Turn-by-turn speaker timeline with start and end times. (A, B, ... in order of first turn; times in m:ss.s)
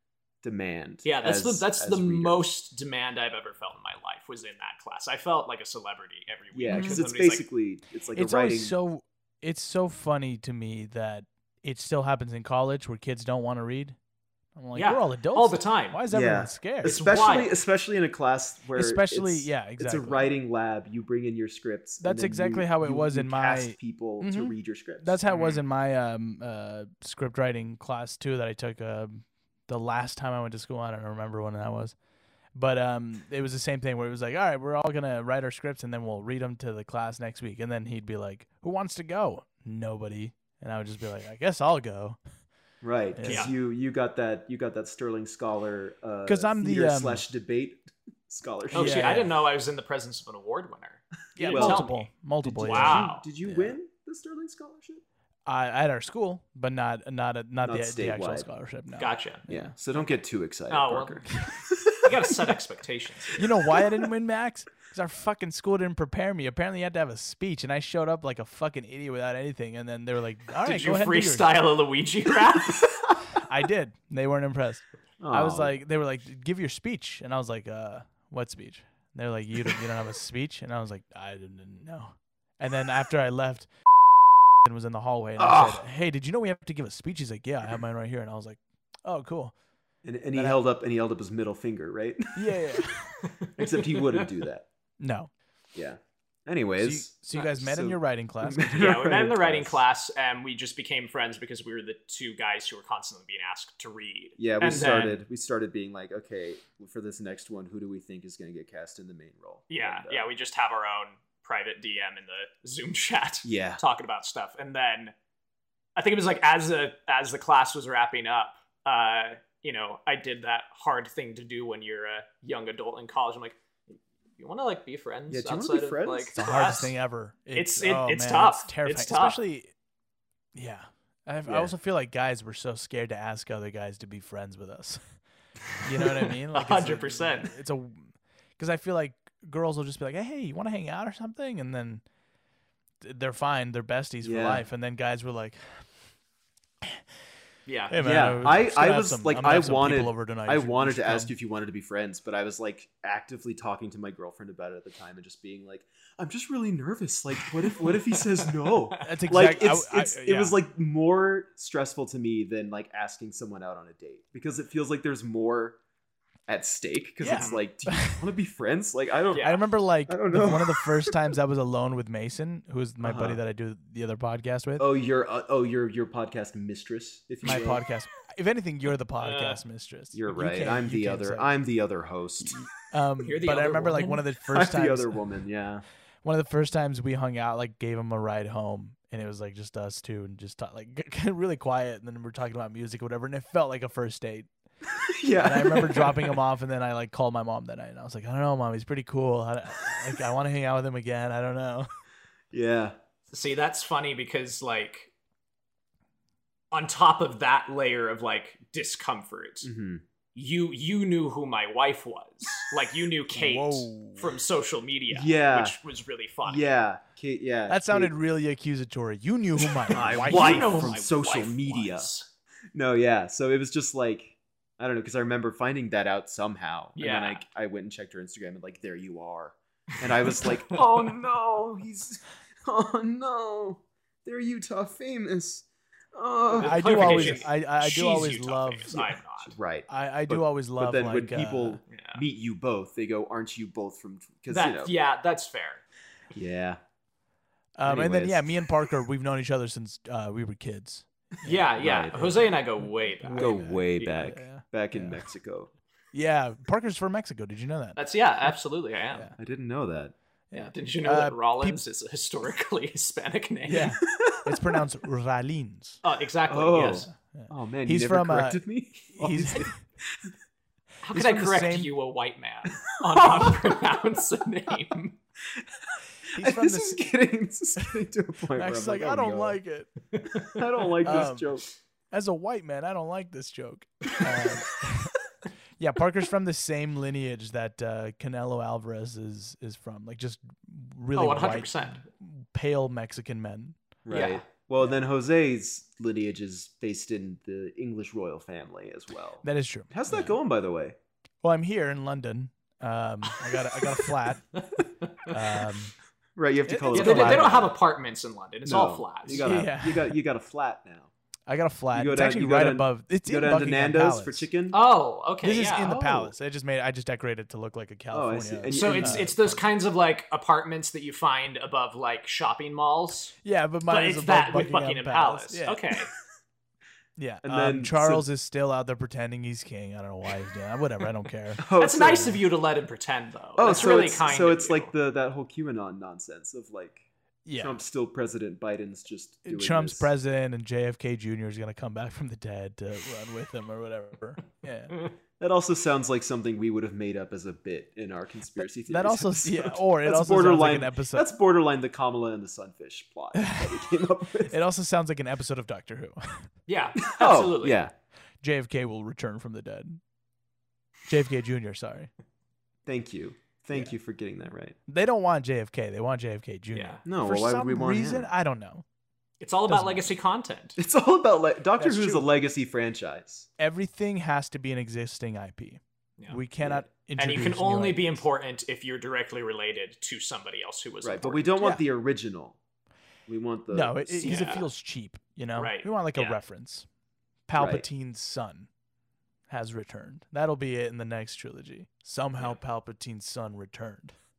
0:00.4-0:02.4 A
0:01.0-0:07.4 B
0:06.5-0:08.7 A
0:06.7-0:07.0 C
0:08.1-0:14.0 C
0:14.6-0:17.0 C
0:14.8-0:16.0 B
0:16.1-0:25.2 A
0:16.8-0:17.6 B
0:18.8-0:20.3 C
0:22.0-0:32.0 C
0:25.3-0:25.6 B
0:32.5-0:42.2 C
0:42.8-0:49.1 A
0:43.2-0:43.5 C
0:43.3-0:43.5 B
0:46.3-0:47.2 C
0:48.7-0:49.4 C
0:48.7-0:52.1 B
0:51.4-0:53.8 C
0:51.4-0:51.9 A
0:52.4-0:55.0 A
0:52.6-0:53.2 B
0:55.5-0:59.8 C
0:57.6-0:58.5 A
0:59.0-0:59.4 B
0:59.5-1:02.2 A
1:00.7-1:01.3 B
1:02.0-1:03.4 B
1:03.4-1:11.6 C
1:03.6-1:04.0 A
1:10.6-1:12.8 B
1:13.4-1:23.7 C
1:15.2-1:15.7 A
1:24.6-1:29.5 C
1:25.4-1:25.8 A
1:30.0-1:32.7 A
1:32.4-1:33.3 C
1:33.6-1:34.7 A
1:33.6-1:34.2 B
1:35.0-1:35.3 C
1:35.8-1:39.8 A
1:36.8-1:38.8 C
1:38.8-1:45.1 B
1:44.4-1:50.3 A
1:44.8-1:45.1 C
1:49.7-1:55.1 B
1:53.4-1:53.8 A
1:56.0-2:03.6 B
2:04.4-2:07.0 B
2:05.3-2:06.3 A
2:06.4-2:09.7 C
2:07.5-2:09.4 B
2:10.5-2:15.0 C
2:11.5-2:11.7 A
2:15.8-2:22.0 C
2:16.0-2:17.5 B
2:23.0-2:25.9 C
2:24.2-2:24.6 A
2:27.7-2:27.9 B
2:27.9-2:31.3 C
2:28.0-2:45.8 A
2:38.7-2:39.1 B
2:39.0-2:40.6 C
2:46.5-2:51.2 A
2:47.2-2:48.2 C
2:47.3-2:47.6 B
2:49.3-2:49.6 B
2:49.4-2:54.9 C
2:53.0-2:53.4 A
2:54.8-2:57.8 A
2:57.4-3:01.5 C
2:59.2-2:59.6 B
3:00.1-3:02.6 A
3:02.5-3:05.2 C
3:03.2-3:04.2 B
3:04.5-3:05.8 A
3:06.2-3:14.5 C
3:14.9-3:16.4 A
3:15.4-3:21.9 C
3:22.5-3:23.0 A
3:23.3-3:25.1 B
3:26.7-3:29.7 B
3:29.6-3:30.0 A
3:30.4-3:36.7 B
3:33.3-3:34.4 C
3:35.1-3:35.8 A
3:36.4-3:38.1 A
3:37.7-3:41.0 C
3:39.9-3:42.3 B
3:39.9-3:42.1 A
3:42.7-3:57.4 A
3:47.0-3:47.4 B
3:50.4-3:50.8 B
3:56.5-3:59.5 B
3:56.6-3:59.2 C
3:59.4-4:04.9 A
3:59.9-4:01.8 C
4:01.9-4:02.2 B
4:04.5-4:05.8 B
4:06.3-4:06.8 A
4:07.8-4:15.2 C
4:07.8-4:08.6 A
4:11.4-4:14.3 B
4:11.8-4:12.5 A
4:13.4-4:15.7 A
4:16.1-4:18.0 C
4:18.0-4:19.3 B
4:19.4-4:20.1 A
4:20.5-4:21.8 C
4:20.5-4:24.0 B
4:23.6-4:26.0 C
4:24.0-4:24.5 A
4:26.0-4:27.1 B
4:26.5-4:30.3 A
4:27.1-4:28.6 C
4:29.1-4:29.8 C
4:31.0-4:35.2 B
4:31.1-4:31.9 C
4:33.2-4:33.5 A
4:36.3-4:39.6 A
4:36.4-4:37.0 C
4:38.6-4:40.0 C
4:40.4-4:41.7 A
4:41.0-4:41.5 C
4:42.1-4:45.2 C
4:45.8-4:53.8 C
4:51.2-4:52.0 B
4:54.0-5:01.0 A
4:54.1-4:54.4 B
4:59.4-5:00.4 C
5:01.4-5:04.5 C
5:04.0-5:05.6 B
5:05.3-5:05.9 C
5:06.4-5:07.7 A
5:06.7-5:07.7 C
5:06.9-5:09.5 B
5:08.7-5:11.1 A
5:09.3-5:10.2 C
5:11.5-5:14.5 C
5:11.9-5:14.8 A
5:14.7-5:16.0 B
5:15.4-5:19.6 C
5:15.8-5:16.3 A
5:18.1-5:19.4 A
5:18.7-5:23.4 B
5:23.4-5:25.8 C
5:23.9-5:26.1 B
5:27.2-5:32.4 C
5:27.4-5:28.3 A
5:31.6-5:32.4 A
5:31.8-5:34.9 B
5:33.6-5:37.0 A
5:37.4-5:37.8 C
5:37.6-5:40.1 A
5:39.4-5:45.0 C
5:45.4-5:54.6 A
5:48.6-5:51.3 C
5:53.4-5:53.9 C
5:54.5-5:56.5 C
5:56.7-5:57.8 B
5:57.0-5:57.9 A
5:58.4-6:00.0 C
6:01.1-6:02.1 C
6:02.9-6:04.8 A
6:04.9-6:08.8 C
6:06.7-6:07.0 B
6:07.0-6:08.3 A
6:09.4-6:10.8 B
6:09.7-6:10.1 C
6:10.8-6:13.5 A
6:11.8-6:12.3 C
6:13.6-6:18.2 C
6:16.6-6:16.9 A
6:17.2-6:21.5 B
6:21.0-6:22.6 A
6:23.3-6:24.5 A
6:23.7-6:26.9 C
6:24.2-6:24.7 B
6:25.6-6:26.4 B
6:27.5-6:28.7 C
6:27.6-6:27.8 A
6:29.5-6:34.1 C